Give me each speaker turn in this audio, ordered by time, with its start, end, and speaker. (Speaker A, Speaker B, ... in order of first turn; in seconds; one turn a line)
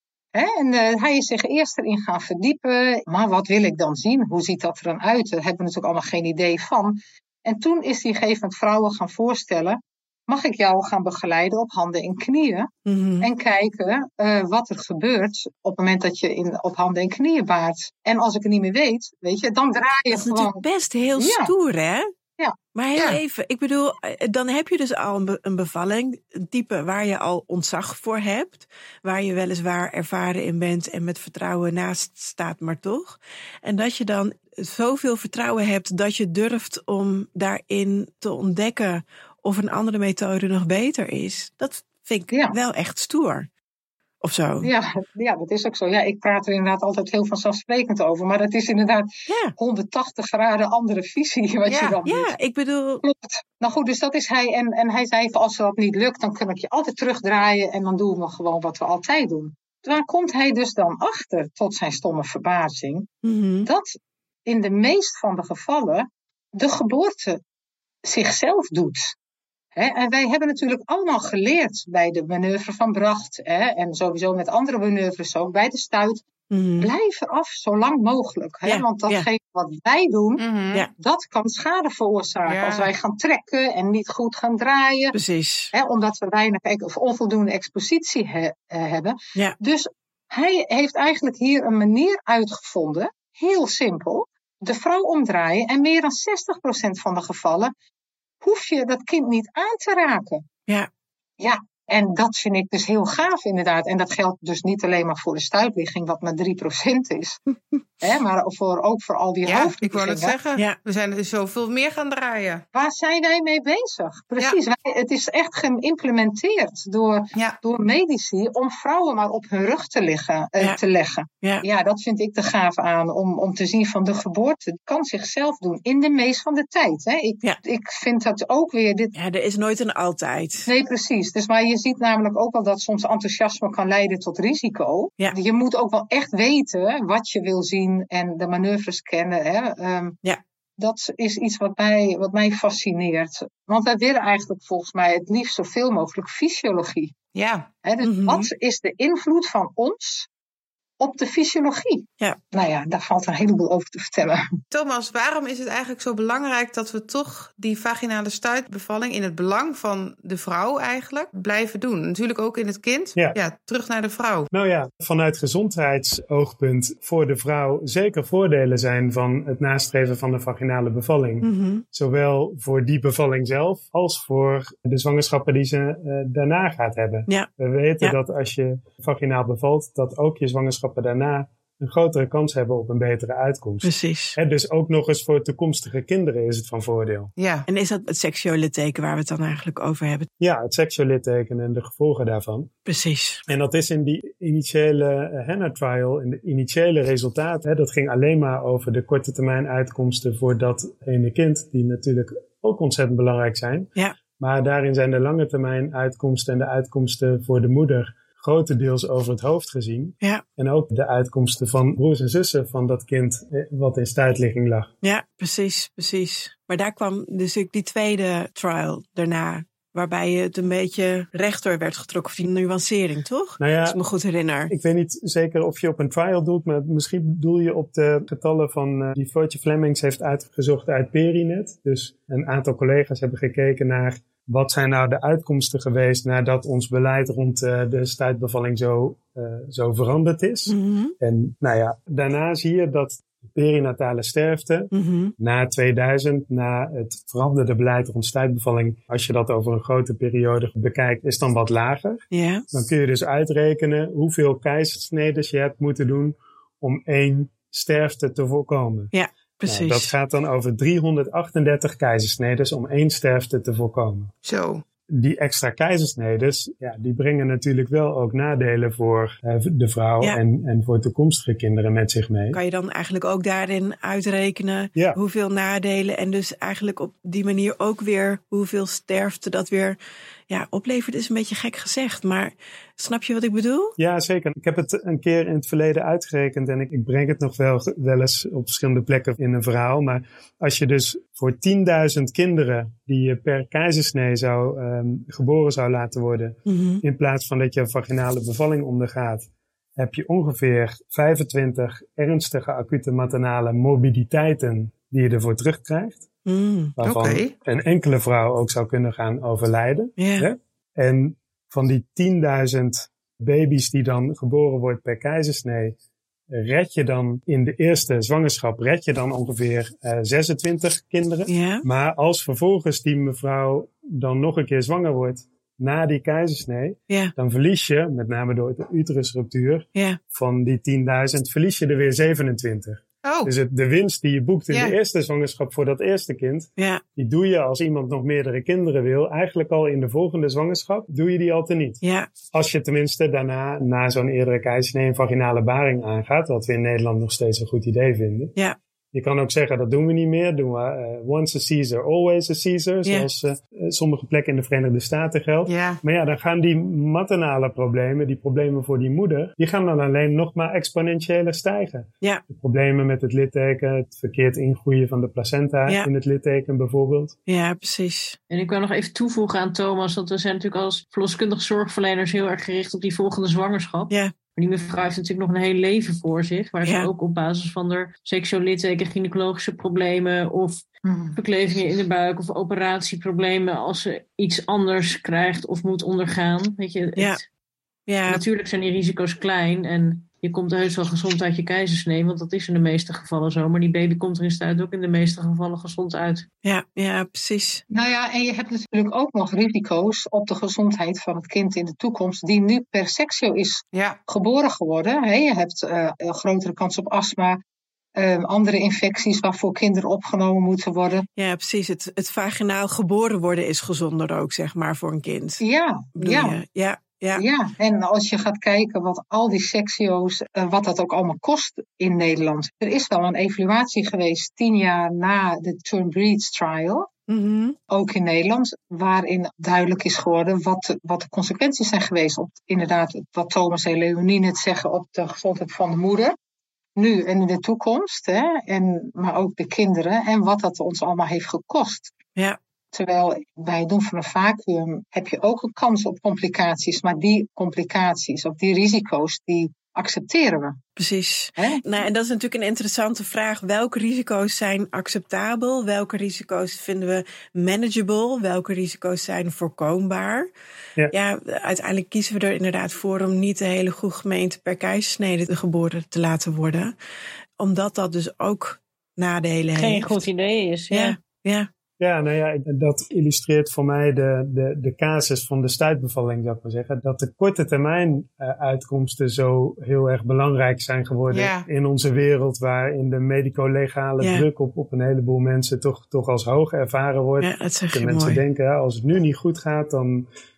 Speaker A: 0.3-20.6
Speaker B: 12.9-13.3
Speaker B: 20.1-22.1
Speaker A: 21.2-21.5
Speaker B: 22.7-43.5
Speaker C: 22.9-23.2
Speaker A: 42.3-42.6
Speaker B: 44.2-44.7
Speaker A: 44.6-52.4
Speaker B: 49.3-49.5
Speaker C: 51.7-52.0
Speaker B: 52.0-53.0
Speaker A: 53.0-63.1
Speaker B: 63.2-63.7
Speaker A: 63.6-67.4
Speaker A: 68.0-69.2
Speaker A: 69.8-76.3
Speaker B: 76.5-76.9
Speaker A: 76.8-85.2
Speaker B: 78.7-79.3
Speaker C: 80.4-80.9
Speaker C: 82.5-82.9
Speaker B: 85.1-85.7
Speaker A: 85.7-97.7
Speaker A: 98.4-100.5
Speaker A: 101.4-107.4
Speaker A: 108.0-110.4
Speaker C: 109.5-112.6
Speaker A: 112.7-129.1
Speaker B: 129.1-130.7
Speaker A: 130.7-140.2
Speaker A: 140.8-147.1
Speaker C: 147.3-147.7
Speaker A: 147.8-150.3
Speaker B: 148.0-148.5
Speaker A: 151.0-154.6
Speaker C: 154.7-164.5
Speaker D: 164.5-187.3
Speaker B: 171.4-171.8
Speaker B: 183.8-184.4
Speaker C: 187.4-187.7
Speaker B: 187.7-190.3
Speaker D: 190.4-192.7
Speaker B: 192.9-193.4
Speaker D: 193.5-214.9
Speaker B: 215.0-224.7
Speaker D: 223.6-224.0
Speaker D: 224.7-259.1
Speaker B: 240.7-241.2
Speaker B: 244.9-245.3
Speaker B: 252.3-252.7
Speaker B: 259.1-260.1
Speaker D: 259.7-264.3
Speaker C: 264.4-264.8
Speaker D: 265.1-272.6
Speaker B: 272.5-280.0
Speaker B: 280.5-283.9
Speaker D: 284.0-306.3
Speaker B: 296.7-297.0
Speaker B: 306.4-306.9
Speaker D: 307.0-316.0
Speaker C: 307.0-307.5
Speaker B: 310.2-310.5
Speaker D: 316.5-348.6
Speaker B: 321.5-321.9
Speaker B: 329.9-330.2
Speaker C: 333.2-333.5
Speaker C: 334.7-335.0
Speaker B: 336.8-337.0
Speaker B: 342.0-342.3
Speaker D: 349.1-367.4
Speaker C: 355.7-356.0
Speaker B: 367.5-368.4
Speaker E: 368.5-380.9
Speaker B: 376.8-377.1
Speaker A: 381.1-381.4
Speaker E: 381.4-387.4
Speaker B: 388.1-388.4
Speaker E: 388.3-396.5
Speaker B: 396.6-397.8
Speaker A: 397.9-407.6
Speaker C: 403.9-404.2
Speaker A: 408.2-411.3
Speaker B: 411.4-415.6
Speaker A: 415.6-416.6
Speaker B: 416.2-417.5
Speaker A: 417.4-427.1
Speaker B: 427.3-427.8
Speaker A: 427.9-436.4
Speaker A: 437.0-442.1
Speaker A: 442.9-450.8
Speaker B: 451.0-460.5
Speaker A: 451.6-451.8
Speaker B: 461.1-466.9
Speaker B: 467.6-470.2
Speaker E: 469.8-471.2
Speaker B: 470.9-471.7
Speaker D: 472.0-490.3
Speaker C: 481.3-481.7
Speaker B: 484.2-484.5
Speaker B: 487.4-488.4